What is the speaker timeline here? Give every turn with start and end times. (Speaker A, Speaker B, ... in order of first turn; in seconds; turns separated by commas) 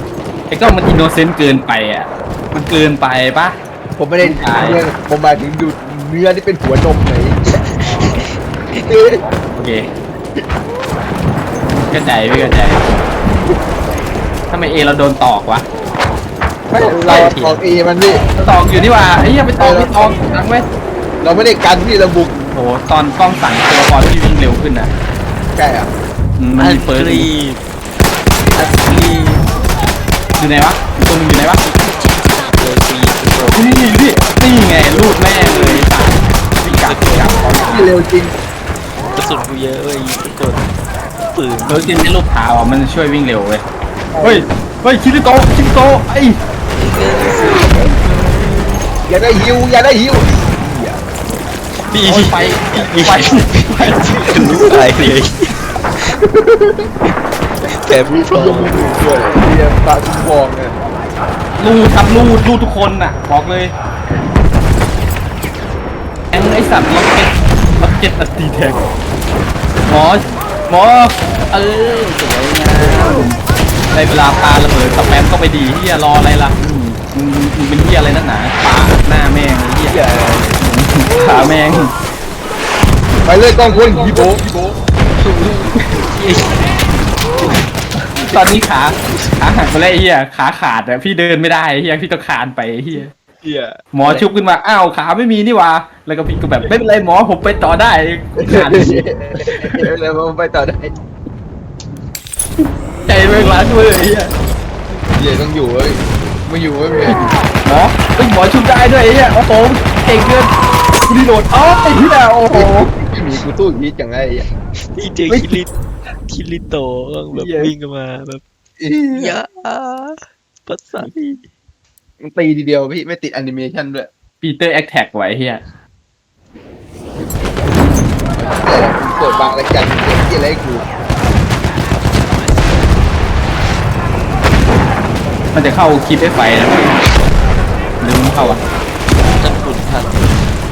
Speaker A: 0.5-3.5, Speaker B: 4.0-7.4, Speaker A: 4.2-4.8, Speaker C: 7.5-8.3, Speaker B: 8.7-9.2, Speaker A: 9.5-9.9, Speaker A: 11.9-12.9, Speaker A: 14.5-15.6, Speaker B: 16.7-18.2, Speaker A: 16.7-17.3, Speaker C: 16.7-17.6, Speaker A: 18.4-20.7, Speaker B: 19.6-20.1, Speaker B: 21.2-22.4, Speaker A: 22.5-24.9, Speaker B: 25.5-25.9, Speaker A: 26.4-27.3, Speaker C: 26.6-27.6, Speaker C: 28.5-29.4, Speaker A: 30.4-31.6, Speaker C: 31.6-33.7, Speaker A: 33.5-37.9, Speaker C: 36.7-37.7, Speaker B: 37.7-38.3, Speaker C: 39.1-40.7, Speaker C: 41.3-41.9, Speaker A: 41.6-43.6, Speaker B: 44.1-44.4, Speaker A: 44.2-46.4, Speaker C: 46.7-48.9, Speaker B: 49.1-51.0, Speaker C: 51.8-55.6, Speaker A: 52.0-54.0, Speaker B: 54.4-54.8, Speaker B: 56.2-56.9, Speaker C: 57.7-59.0, Speaker B: 58.1-60.7, Speaker A: 61.6-63.7, Speaker A: 66.3-68.8, Speaker A: 69.9-73.4, Speaker A: 73.9-81.9, Speaker B: 79.9-80.6, Speaker B: 83.2-84.8, Speaker A: 83.7-84.4, Speaker C: 85.2-86.8, Speaker A: 88.1-93.1, Speaker B: 93.4-94.2, Speaker A: 93.9-99.8, Speaker B: 98.5-100.9, Speaker A: 103.0-104.3, Speaker B: 105.1-107.3, Speaker A: 107.6-110.5, Speaker A: 111.1-112.9, Speaker B: 112.5-114.5, Speaker C: 114.9-115.7, Speaker A: 115.3-115.6, Speaker C: 116.3-118.4, Speaker A: 117.3-117.7, Speaker B: 118.8-119.3, Speaker C: 119.1-121.5, Speaker B: 122.2-124.1, Speaker A: 124.4-125.6, Speaker B: 128.3-130.8, Speaker A: 135.5-137.0, Speaker A: 138.0-138.6, Speaker B: 138.3-138.6, Speaker C: 139.3-140.4